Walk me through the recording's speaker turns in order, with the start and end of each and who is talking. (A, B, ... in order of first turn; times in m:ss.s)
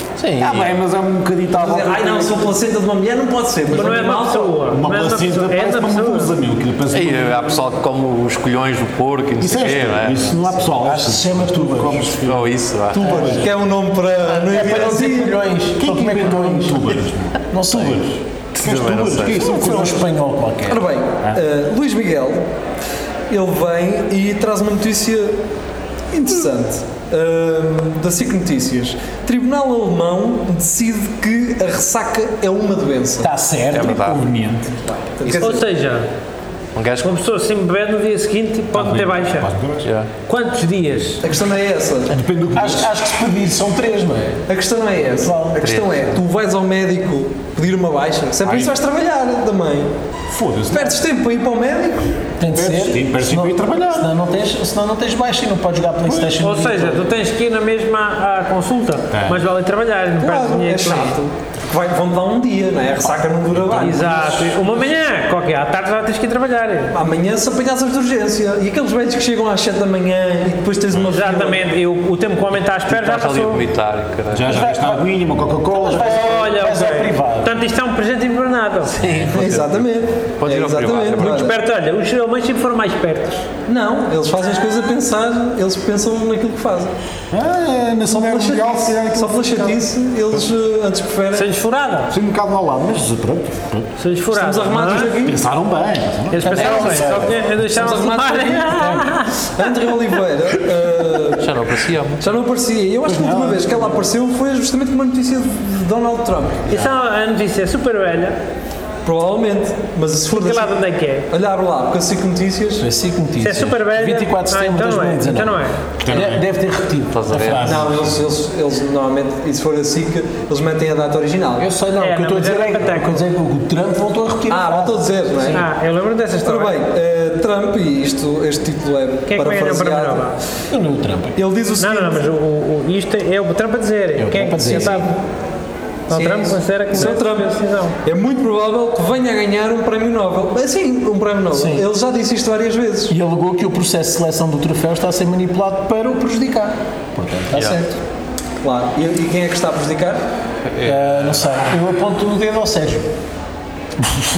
0:00.2-0:00.8 A
0:00.4-0:02.5 B
0:01.5-0:04.6 C
0:03.7-0:06.3 D
0:04.7-0:07.6 B
0:06.9-0:10.6 A
0:09.4-0:13.2 B
0:10.8-0:12.1 E
0:12.2-0:13.3 A
0:12.9-0:15.4 C
0:13.0-0:13.4 E
0:14.3-0:17.0 E
0:15.8-0:20.0 B
0:17.5-0:18.2 E
0:18.5-0:19.4 A
0:19.3-0:20.0 C
0:19.6-0:20.8 E
0:20.7-0:22.4 C
0:23.3-0:25.4 C
0:26.1-0:33.3 C
0:33.2-0:34.1 E
0:33.7-0:34.2 A
0:33.8-0:34.7 B
0:34.8-0:35.7 C
0:35.2-0:35.6 A
0:35.3-0:36.1 D
0:36.7-0:37.1 A
0:37.0-0:39.5 D
0:38.7-0:39.8 B
0:39.8-0:40.1 A
0:40.3-0:41.2 D
0:41.2-0:42.1 C
0:42.1-0:42.9 B
0:42.5-0:44.4 E
0:44.5-0:49.9 C
0:45.2-0:45.7 E
0:45.6-0:46.0 A
0:48.4-0:48.7 B
0:50.3-0:51.0 B
0:50.7-0:52.0 C
0:52.4-0:57.0 E
0:52.5-0:54.1 B
0:56.3-1:01.2 D
0:59.1-0:59.4 B
1:00.2-1:04.7 C
1:03.5-1:04.0 B
1:03.7-1:06.9 D
1:06.9-1:11.7 C
1:11.0-1:13.6 D
1:12.9-1:14.6 A
1:14.3-1:16.3 B
1:14.5-1:15.0 E
1:15.7-1:17.5 E
1:16.1-1:18.9 D
1:18.9-1:19.8 A
1:19.2-1:21.6 C
1:20.4-1:21.5 A
1:21.2-1:23.4 D
1:23.7-1:26.9 C
1:27.3-1:30.4 B
1:28.1-1:31.5 C
1:31.3-1:32.1 D
1:32.1-1:33.9 B
1:34.0-1:35.1 D
1:34.3-1:35.4 C
1:35.0-1:37.8 B
1:36.3-1:39.5 D
1:36.4-1:37.0 A
1:36.5-1:41.5 C
1:41.4-1:42.3 A
1:42.2-1:46.7 C
1:43.0-1:44.0 B
1:46.7-1:48.4 D
1:49.0-1:52.8 C
1:50.3-1:51.3 D
1:52.8-1:57.8 E
1:53.4-1:55.8 D
1:56.0-1:56.4 B
1:57.1-1:57.8 A
1:57.4-1:58.1 B
1:57.6-2:01.7 C
2:01.6-2:05.6 E
2:02.0-2:03.2 D
2:04.5-2:05.6 C
2:05.5-2:06.8 D
2:06.4-2:10.3 C
2:09.3-2:10.4 D
2:10.7-2:11.4 E
2:11.4-2:12.3 C
2:11.8-2:15.1 D
2:14.2-2:15.1 E
2:14.7-2:15.2 C
2:16.1-2:18.0 D
2:16.1-2:23.1 C
2:21.5-2:21.8 E
2:23.1-2:27.8 E
2:27.5-2:28.0 C
2:28.6-2:30.2 C
2:30.7-2:31.6 A
2:30.8-2:33.1 E